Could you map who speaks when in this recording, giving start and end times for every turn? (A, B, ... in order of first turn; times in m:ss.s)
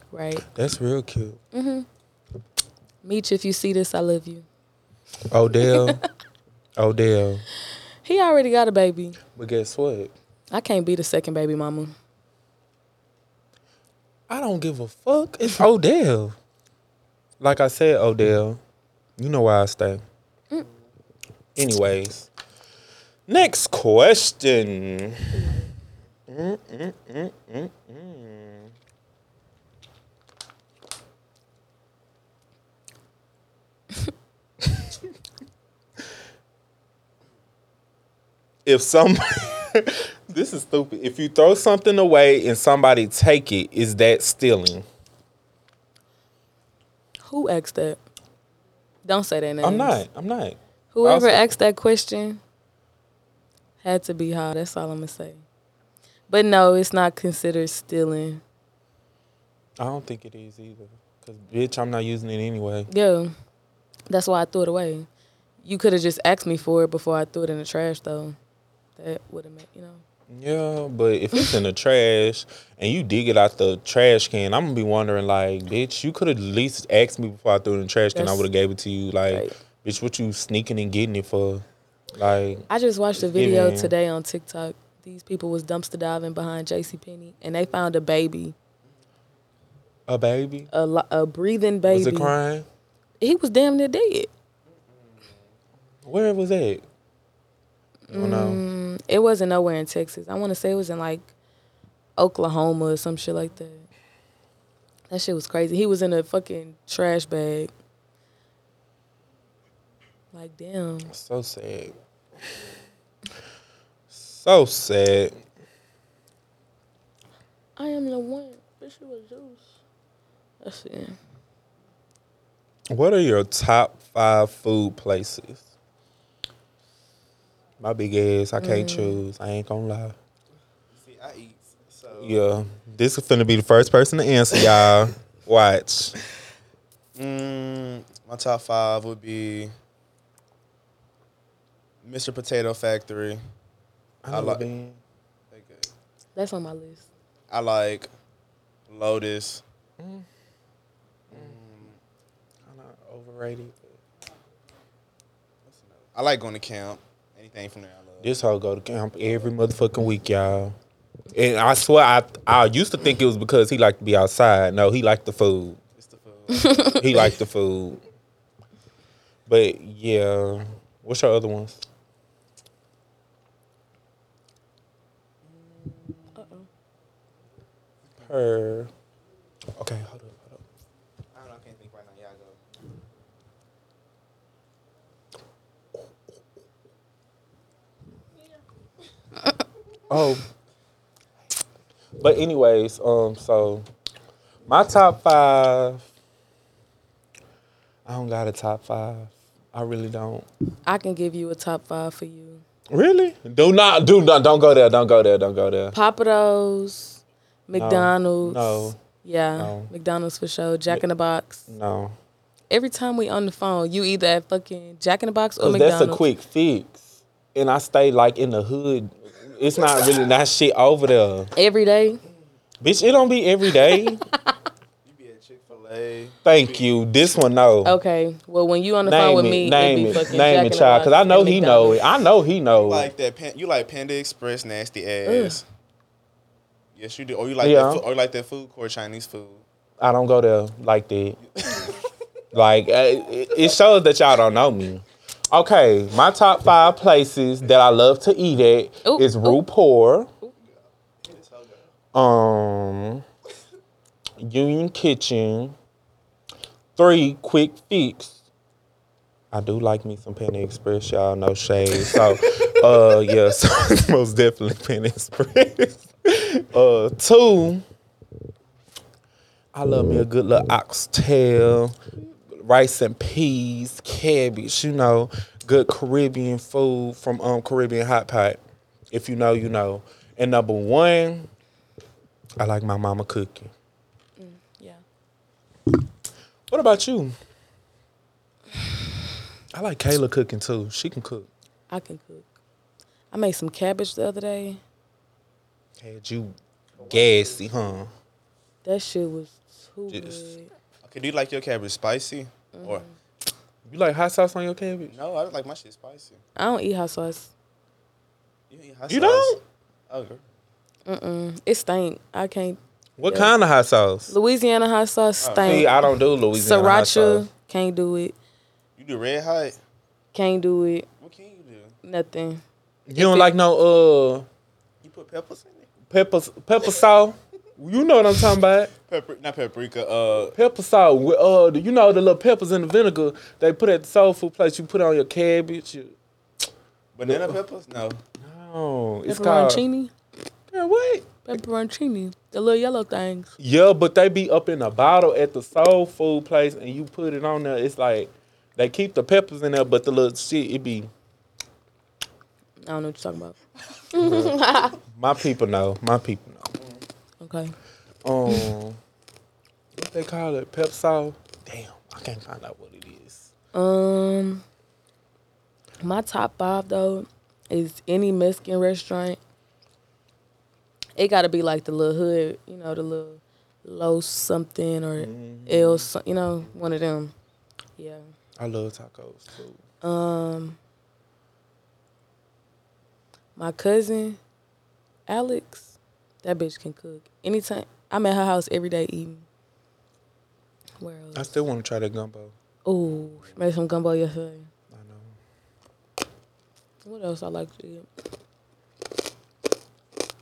0:00.1-0:00.4 A
0:00.4-0:01.4 B
0:01.5-0:01.9 A
0:03.0-0:04.4 A
0:05.3-0:06.0 B
0:05.6-0:06.1 A
0:06.8-0:07.4 B
0:08.0-0:09.2 A
0:09.3-0:10.1 B
0:10.5-0:11.9 A
0:14.3-0:16.4 B
0:17.4-0:18.6 B
0:19.2-0:20.0 B
0:21.6-0:22.3 B
0:23.3-0:25.5 B
0:25.3-0:25.7 A
0:26.3-0:28.7 B
0:34.6-0:34.9 B
0:38.6-0:44.8 B
0:47.2-0:48.0 A
0:49.0-0:50.0 A
0:49.6-0:51.5 B
0:50.9-0:52.4 A
0:53.8-0:55.4 A
0:56.3-0:58.4 A
0:59.8-1:02.9 B
1:02.9-1:03.3 A
1:04.1-1:05.1 A
1:05.6-1:08.4 A
1:09.0-1:10.0 A
1:10.3-1:23.9 B
1:18.1-1:18.5 A
1:22.7-1:28.6 A
1:30.1-1:30.7 B
1:30.7-1:32.4 A
1:31.9-1:32.7 B
1:33.2-1:34.3 A
1:34.7-1:35.6 C
1:36.1-1:36.8 B
1:38.1-1:41.3 A
1:38.1-1:38.6 B
1:42.2-1:43.9 A
1:45.1-1:47.7 A
1:50.3-1:51.1 A
1:51.1-1:51.9 B
1:54.1-1:55.4 B
1:57.8-1:59.7 A
2:00.6-2:01.2 A
2:02.9-2:05.7 B
2:07.8-2:10.2 B
2:08.6-2:09.2 A
2:10.9-2:12.4 C
2:12.1-2:16.2 B
2:17.2-2:19.7 C
2:22.0-2:23.4 C
2:24.2-2:25.0 B
2:24.3-2:24.6 C
2:25.5-2:25.9 C
2:26.4-2:27.1 A
2:27.5-2:28.1 C
2:28.9-2:29.6 C
2:30.0-2:30.3 B
2:31.3-2:32.0 C
2:32.7-2:34.0 B
2:35.6-2:38.3 C
2:38.2-2:40.7 B
2:41.3-2:45.8 B
2:46.0-2:47.3 C
2:46.5-2:47.0 A
2:47.0-2:48.0 B
2:49.5-2:51.8 B
2:55.4-2:56.5 C
2:56.4-2:56.7 A
2:58.0-2:58.3 C
2:58.2-2:58.9 B
2:59.8-3:00.6 B
3:01.3-3:02.6 C
3:10.1-3:10.4 B
3:12.2-3:13.9 B
3:14.7-3:16.1 B
3:18.1-3:20.4 B
3:20.9-3:22.6 A
3:22.9-3:25.9 B
3:25.9-3:31.7 A
3:27.7-3:29.0 B
3:29.6-3:29.9 B
3:31.7-3:32.2 B
3:32.7-3:36.2 A
3:35.6-3:41.5 B
3:41.6-3:42.2 A
3:42.8-3:44.2 B
3:45.0-3:46.8 C
3:46.4-3:48.0 B
3:47.8-3:52.0 A
3:49.0-3:53.1 B
3:52.8-3:55.6 C
3:55.2-3:55.6 A
3:57.0-3:59.6 C
3:57.6-3:58.0 B
4:00.0-4:01.4 B
4:01.5-4:02.0 C
4:02.5-4:10.3 B
4:09.0-4:09.6 A
4:10.6-4:11.9 C
4:12.1-4:13.2 B
4:14.4-4:15.8 B
4:17.0-4:18.4 B
4:19.5-4:27.8 B
4:29.7-4:38.6 B
4:39.1-4:41.5 B
4:42.6-4:43.7 B
4:44.4-4:45.0 A
4:46.7-4:47.4 B
4:49.7-4:51.5 B
4:51.9-4:52.5 A
4:53.3-4:54.8 A
4:56.0-4:58.1 B
4:57.0-4:58.0 C
4:58.8-5:00.7 A
5:00.1-5:00.5 B
5:01.0-5:03.0 C
5:02.7-5:03.1 A
5:03.8-5:05.2 B
5:05.1-5:06.4 C
5:06.6-5:07.5 A
5:08.7-5:09.6 C
5:09.1-5:09.6 B
5:10.1-5:10.4 C
5:11.1-5:13.5 A
5:13.2-5:14.3 B
5:14.3-5:18.4 A
5:15.4-5:15.9 C
5:15.6-5:17.5 B
5:19.0-5:19.8 C
5:20.3-5:21.1 A
5:21.2-5:22.0 C
5:22.0-5:22.6 A
5:23.1-5:24.5 B
5:23.2-5:23.5 A
5:25.0-5:25.9 C
5:26.1-5:28.9 B
5:29.1-5:30.5 C
5:30.5-5:36.2 B
5:37.2-5:38.2 C
5:37.3-5:37.6 B
5:38.4-5:39.8 B
5:39.3-5:40.1 A
5:40.7-5:41.4 B
5:41.5-5:43.5 A
5:43.6-5:51.1 B
5:52.8-5:53.6 A
5:54.1-5:55.0 A
5:54.2-5:56.8 B
5:57.4-5:57.7 A
5:58.2-5:59.0 B
6:00.0-6:03.5 B
6:03.7-6:04.6 A
6:06.0-6:09.4 A
6:11.2-6:17.3 A
6:15.2-6:16.1 B
6:18.0-6:18.2 A
6:18.6-6:19.8 B
6:20.0-6:20.8 A
6:23.6-6:24.4 A
6:25.3-6:29.5 A
6:31.0-6:31.5 A
6:31.4-6:32.5 B
6:32.8-6:34.7 A
6:33.2-6:33.6 C
6:34.9-6:35.4 B
6:37.0-6:38.1 A